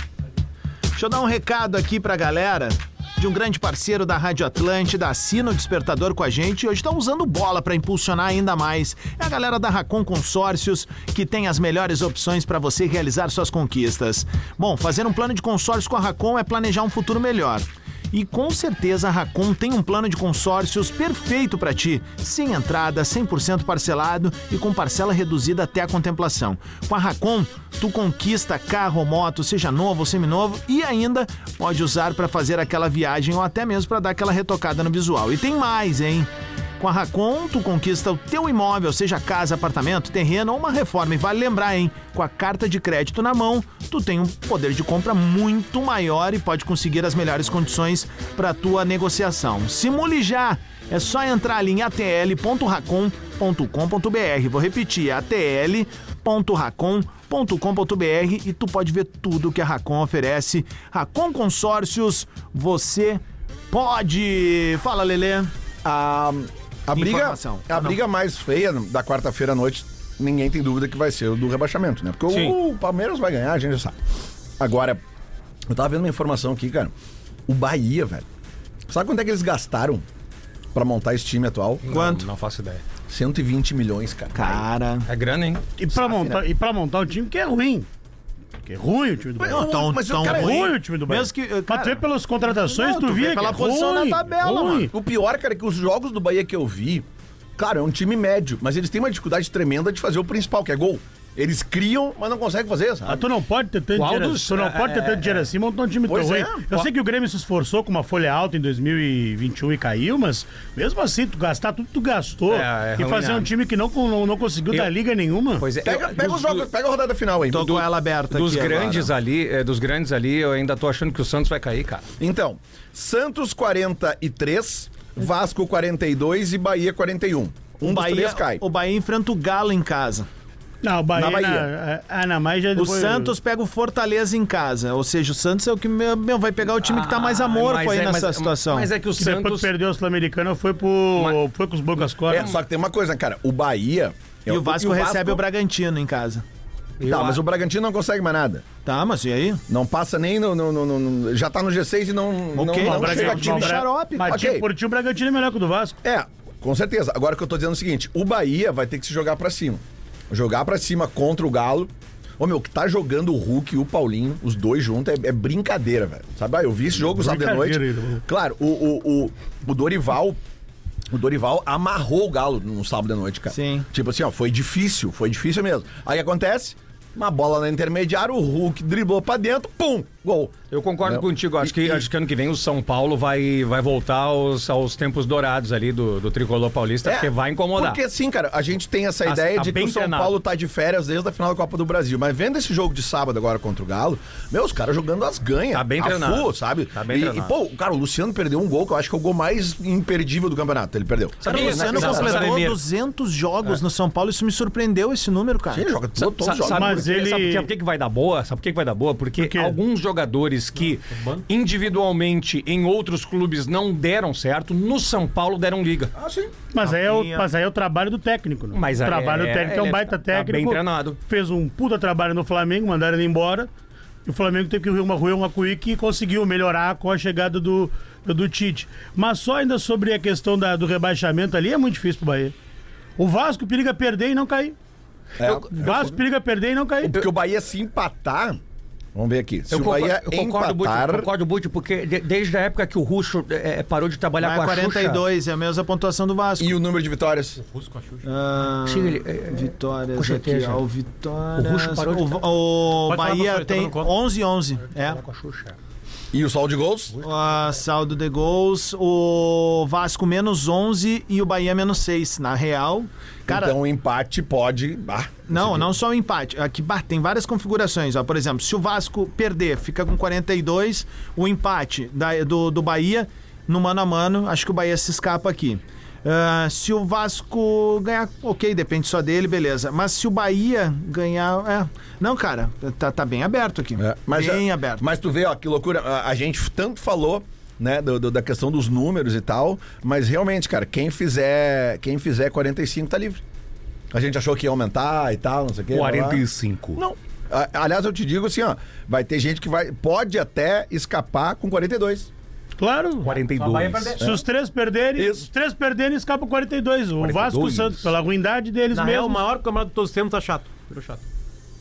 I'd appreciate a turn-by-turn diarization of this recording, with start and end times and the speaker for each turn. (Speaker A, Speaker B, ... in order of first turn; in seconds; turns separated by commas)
Speaker A: 0.9-65.5, Speaker B: 65.8-74.0, Speaker A: 66.9-68.0, Speaker C: 72.3-72.6, Speaker B: 74.6-75.0, Speaker B: 75.7-76.9, Speaker B: 77.5-78.2, Speaker B: 78.9-80.0, Speaker B: 80.7-81.8, Speaker C: 81.8-82.8, Speaker A: 81.9-82.2, Speaker B: 83.1-84.7, Speaker A: 84.3-85.1, Speaker C: 85.1-85.6, Speaker D: 85.8-87.9, Speaker A: 86.0-86.4, Speaker D: 88.6-94.9, Speaker B: 89.4-90.7, Speaker A: 89.5-94.9, Speaker B: 94.9-97.0, Speaker B: 97.6-103.2, Speaker D: 103.1-115.6, Speaker C: 103.9-105.5, Speaker B: 106.0-106.9, Speaker C: 112.5-113.5, Speaker C: 115.6-116.7, Speaker B: 115.8-117.8, Speaker A: 117.5-119.1, Speaker C: 118.3-122.1, Speaker B: 122.2-128.6, Speaker A: 127.8-130.3, Speaker D: 130.8-133.3, Speaker B: 131.1-131.7, Speaker A: 132.7-138.9, Speaker C: 136.8-139.7, Speaker D: 139.2-142.5, Speaker B: 142.3-145.4, Speaker A: 144.5-146.4, Speaker C: 147.0-147.4, Speaker B: 147.1-148.6, Speaker A: 148.8-149.6, Speaker B: 149.7-154.7, Speaker A: 152.5-154.5, Speaker D: 152.8-156.0, Speaker B: 156.0-170.4, Speaker D: 167.1-168.2, Speaker B: 171.1-180.5, Speaker A: 173.5-173.9, Speaker C: 180.7-188.0, Speaker B: 181.0-182.1, Speaker B: 187.1-202.2, Speaker C: 189.2-190.4, Speaker C: 195.7-197.5, Speaker C: 201.4-202.7, Speaker A: 201.5-205.9, Speaker E: 201.5-202.8, Speaker B: 205.7-207.1, Speaker C: 206.2-216.1, Speaker D: 206.7-207.7, Speaker D: 209.4-209.8, Speaker E: 211.1-211.4, Speaker B: 216.2-216.5, Speaker D: 216.7-223.7, Speaker A: 216.8-217.4, Speaker C: 218.7-221.2, Speaker D: 224.2-232.5, Speaker D: 233.2-234.8, Speaker B: 235.4-236.2, Speaker C: 235.4-235.7, Speaker D: 235.7-237.2, Speaker B: 237.0-238.6, Speaker B: 239.1-241.3, Speaker C: 239.7-245.2, Speaker A: 244.4-246.8, Speaker B: 246.6-247.6, Speaker E: 247.6-248.2, Speaker A: 248.2-255.2, Speaker C: 248.8-250.8, Speaker C: 251.6-252.4, Speaker E: 253.0-254.1, Speaker C: 254.9-255.8, Speaker B: 256.3-257.1, Speaker A: 257.2-263.8, Speaker B: 263.5-265.9, Speaker A: 265.5-285.1, Speaker B: 284.0-293.4, Speaker B: 294.1-296.4, Speaker C: 295.9-297.0, Speaker B: 297.0-302.3, Speaker D: 302.8-303.3, Speaker C: 303.2-304.2, Speaker E: 303.2-304.2, Speaker D: 304.2-309.4, Speaker B: 305.1-305.5, Speaker C: 307.2-308.1, Speaker E: 308.9-311.2